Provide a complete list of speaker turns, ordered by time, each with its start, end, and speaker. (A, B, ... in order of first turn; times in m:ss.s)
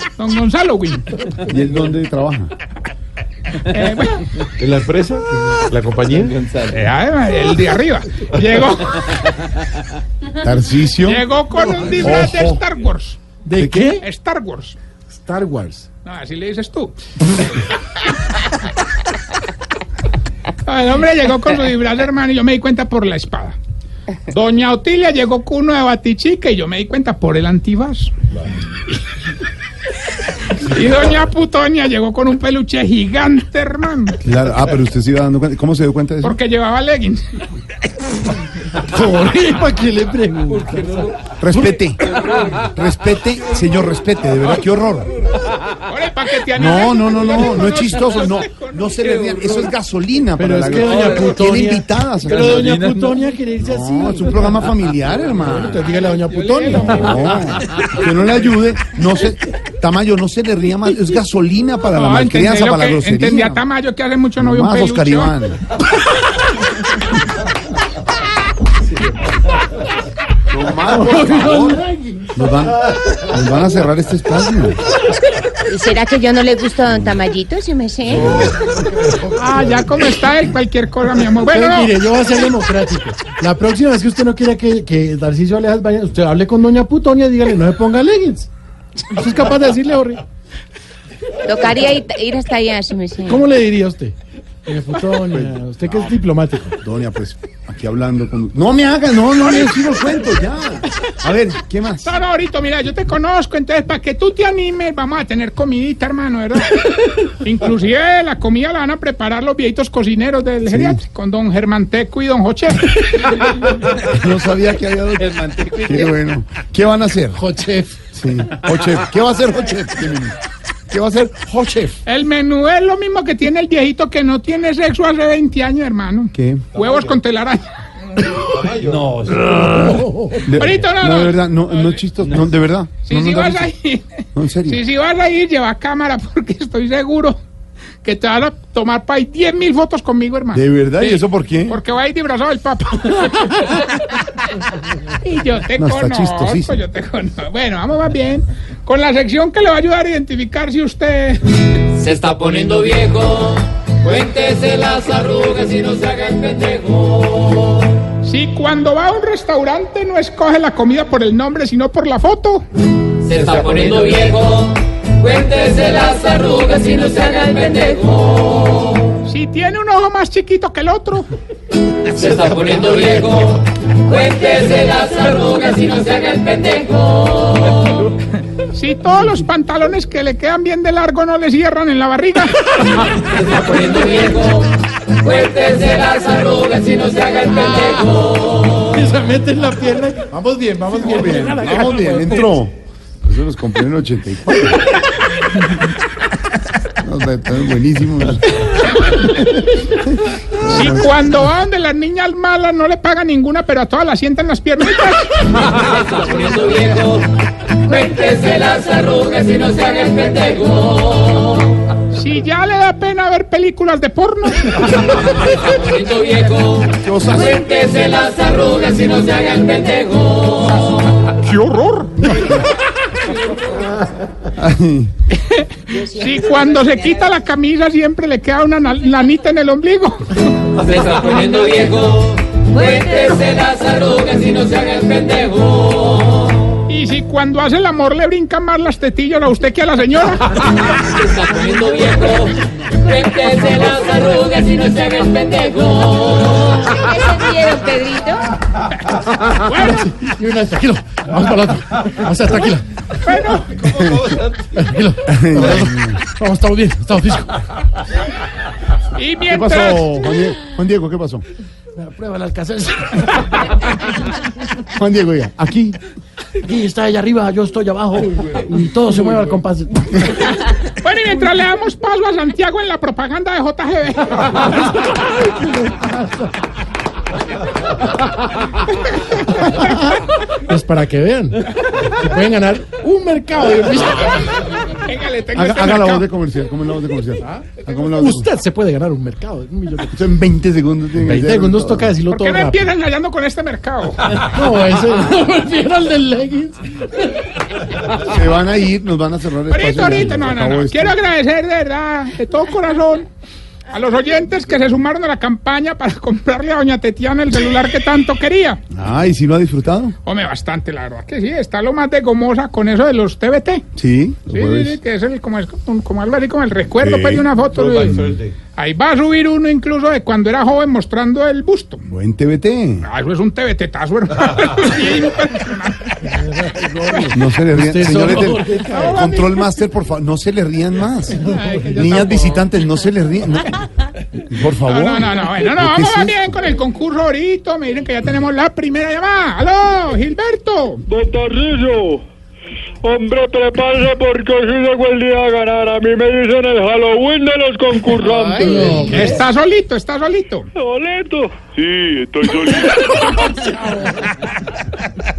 0:00.2-0:01.1 A
0:01.4-0:02.5 B
0:03.6-0:04.4 A
0:04.6-0:06.4 C
0:06.6-0:09.5 A
0:10.4-0:11.2 B
0:11.0-0:13.2 A
0:12.0-0:12.6 B
0:13.4-0:14.0 D
0:13.6-0:14.0 B
0:13.9-0:14.8 A
0:15.1-0:15.9 D
0:16.0-0:17.0 A
0:20.6-0:23.6 A
0:24.3-0:28.1 A
0:30.5-0:34.2 A
0:34.2-0:36.4 B
0:36.2-0:37.2 A
0:38.9-0:40.9 D
0:41.4-0:42.0 B
0:42.6-0:45.1 B
0:45.8-0:49.8 A
0:46.6-0:52.8 B
0:50.4-0:54.6 D
0:53.6-0:55.9 B
0:55.4-0:56.9 D
0:55.7-0:57.9 A
0:56.7-1:03.6 B
1:01.9-1:05.4 A
1:04.4-1:05.6 B
1:10.5-1:14.8 B
1:11.0-1:12.3 D
1:15.7-1:18.3 E
1:16.8-1:17.2 B
1:18.1-1:18.7 B
1:19.2-1:22.6 A
1:21.5-1:28.5 D
1:29.1-1:30.2 D
1:31.4-1:33.4 E
1:33.3-1:36.8 D
1:35.3-1:36.2 B
1:36.8-1:42.1 B
1:42.0-1:53.5 A
1:50.7-1:51.0 B
1:54.0-1:57.4 B
1:57.4-1:58.0 D
1:58.2-2:00.4 B
2:00.9-2:02.0 B
2:02.1-2:07.6 A
2:06.3-2:06.7 B
2:08.4-2:09.7 C
2:08.9-2:13.7 B
2:09.8-2:10.4 D
2:10.5-2:12.4 A
2:13.1-2:17.4 A
2:14.4-2:14.8 B
2:18.0-2:24.4 A
2:20.5-2:21.8 B
2:25.2-2:31.6 A
2:25.8-2:26.8 B
2:32.0-2:37.8 F
2:38.2-2:42.7 A
2:43.3-2:49.1 F
2:49.2-2:51.3 A
2:52.2-2:53.5 C
2:52.3-2:57.7 F
2:57.8-3:03.0 A
3:03.4-3:04.7 F
3:05.3-3:08.3 F
3:07.5-3:12.5 D
3:11.0-3:14.8 B
3:17.0-3:18.7 B
3:20.6-3:21.1 B
3:20.6-3:25.3 A
3:25.9-3:27.2 F
3:27.9-3:31.8 F
3:32.1-3:35.7 A
3:35.9-3:36.9 F
3:36.9-3:38.0 B
3:37.8-3:41.0 F
3:41.2-3:42.7 A
3:44.5-3:45.1 B
3:45.3-3:50.4 A
3:50.9-3:56.7 F
3:56.9-4:00.6 A
4:01.3-4:02.5 F
4:03.1-4:06.7 F
4:06.8-4:08.5 E
4:09.1-4:10.1 A
4:09.8-4:12.9 D
4:13.2-4:13.8 A
4:13.9-4:14.8 C
4:14.0-4:14.4 B
4:14.8-4:17.6 D
4:15.3-4:16.2 B
4:19.2-4:20.2 A
4:19.5-4:21.4 B
4:22.0-4:23.3 D
4:24.8-4:26.0 B
4:26.6-4:30.3 D
4:30.6-4:35.1 A
4:35.4-4:36.4 D
4:40.7-4:44.4 D
4:44.1-4:46.3 A
4:45.6-4:48.5 B
4:48.2-4:50.1 D
4:50.1-4:52.2 B
4:51.2-4:52.9 D
4:52.3-4:54.2 A
4:54.4-4:56.8 D
4:58.2-5:01.2 B
4:59.7-5:03.3 A
5:03.9-5:08.8 A
5:08.9-5:10.2 B
5:10.3-5:13.9 A
5:14.0-5:15.0 B
5:14.5-5:22.0 A
5:17.0-5:17.5 B
5:17.7-5:18.5 C
5:22.1-5:23.1 B
5:23.0-5:26.4 A
5:26.7-5:27.1 D
5:27.1-5:27.4 A
5:27.3-5:33.8 B
5:27.7-5:29.3 D
5:28.5-5:29.6 A
5:31.3-5:32.7 A
5:31.5-5:31.9 D
5:34.4-5:36.5 B
5:34.9-5:41.0 A
5:41.1-5:42.2 G
5:43.0-5:49.3 G
5:48.2-5:49.4 D
5:49.0-5:50.7 A
5:50.8-5:53.5 G